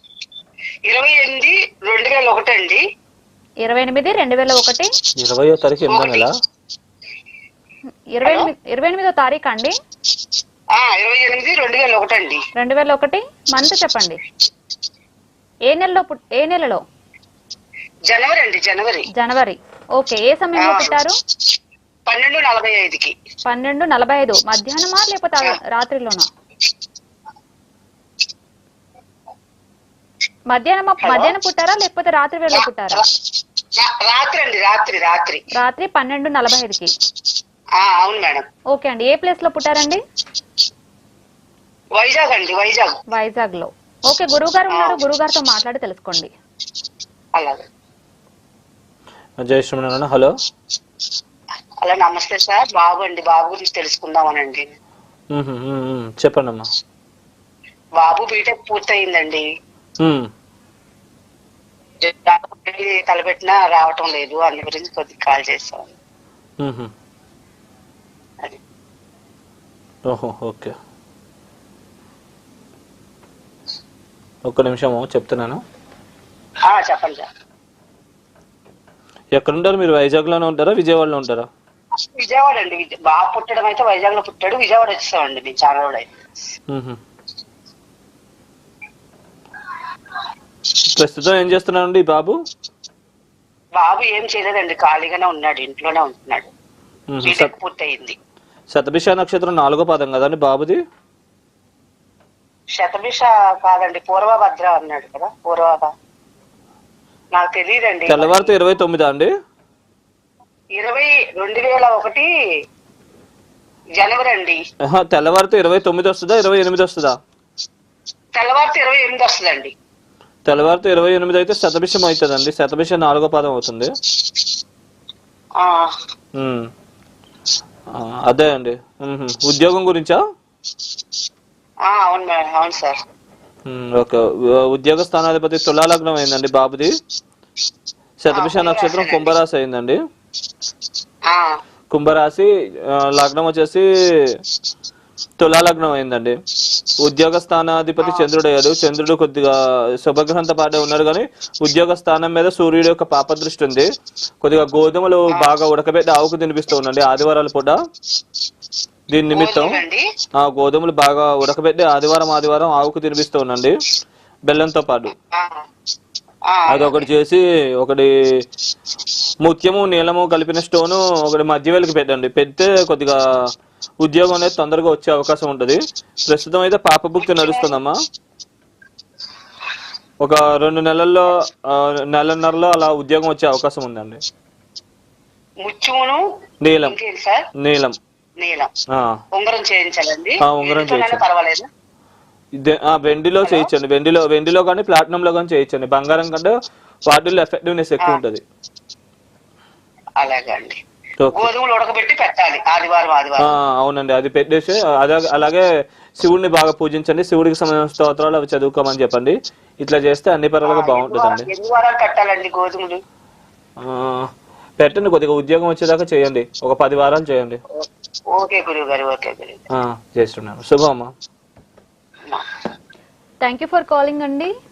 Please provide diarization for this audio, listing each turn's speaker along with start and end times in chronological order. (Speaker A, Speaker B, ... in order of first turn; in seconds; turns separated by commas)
Speaker A: 0.9-2.8, Speaker B: 3.6-4.9, Speaker C: 5.2-6.3, Speaker A: 5.9-6.3, Speaker B: 8.1-9.8, Speaker A: 8.2-8.5, Speaker A: 10.8-12.4, Speaker B: 12.6-14.2, Speaker B: 15.7-16.8, Speaker A: 18.1-19.1, Speaker B: 19.1-21.2, Speaker A: 20.6-21.0, Speaker A: 22.1-23.1, Speaker B: 23.5-26.3, Speaker B: 30.5-33.0, Speaker A: 31.1-31.3, Speaker A: 33.8-35.4, Speaker B: 35.6-36.9, Speaker A: 37.8-38.5, Speaker B: 38.7-40.0, Speaker A: 42.0-42.9, Speaker B: 43.1-46.3, Speaker A: 44.7-45.0, Speaker A: 47.4-47.6, Speaker C: 49.4-50.3, Speaker A: 51.8-54.7, Speaker C: 55.3-56.6, Speaker A: 58.0-59.4, Speaker A: 62.0-65.9, Speaker C: 66.6-66.9, Speaker C: 70.1-70.7, Speaker C: 74.5-75.6, Speaker A: 76.7-77.3, Speaker C: 79.4-81.5, Speaker A: 82.2-86.1, Speaker C: 86.7-87.0, Speaker C: 90.9-92.4, Speaker A: 93.8-96.5, Speaker C: 97.1-97.5, Speaker A: 97.2-98.2, Speaker C: 98.7-100.8, Speaker A: 102.8-105.9, Speaker A: 107.3-108.5, Speaker C: 108.1-109.3, Speaker A: 110.8-112.3, Speaker A: 114.0-114.6, Speaker C: 114.9-117.2, Speaker A: 118.3-119.7, Speaker C: 120.5-123.9, Speaker A: 125.6-125.8, Speaker C: 126.4-126.7, Speaker C: 128.0-130.2, Speaker A: 131.9-133.0, Speaker C: 133.7-136.9, Speaker C: 138.2-140.0, Speaker A: 138.3-139.3, Speaker C: 141.9-143.8, Speaker C: 145.4-146.4, Speaker C: 147.0-153.9, Speaker A: 148.0-148.3, Speaker C: 154.4-157.8, Speaker C: 159.1-159.8, Speaker A: 159.3-160.0, Speaker C: 160.4-163.8, Speaker C: 164.5-165.1, Speaker A: 165.3-165.6, Speaker A: 166.5-167.1, Speaker C: 166.7-168.1, Speaker C: 169.4-173.2, Speaker C: 174.0-177.9, Speaker A: 177.2-177.7, Speaker C: 180.2-184.2, Speaker A: 185.6-186.2, Speaker C: 186.6-187.0, Speaker A: 186.8-187.4, Speaker C: 187.6-188.0, Speaker A: 188.4-188.7, Speaker A: 189.3-191.7, Speaker C: 190.4-191.2, Speaker C: 192.6-196.5, Speaker A: 193.4-193.7, Speaker C: 197.1-198.4, Speaker A: 200.2-200.8, Speaker C: 201.2-201.5, Speaker A: 201.4-203.5, Speaker C: 203.4-205.7, Speaker C: 206.2-211.5, Speaker A: 210.7-213.0, Speaker C: 213.8-214.3, Speaker C: 214.8-217.6, Speaker A: 217.8-219.6, Speaker C: 219.8-221.1, Speaker B: 223.4-224.5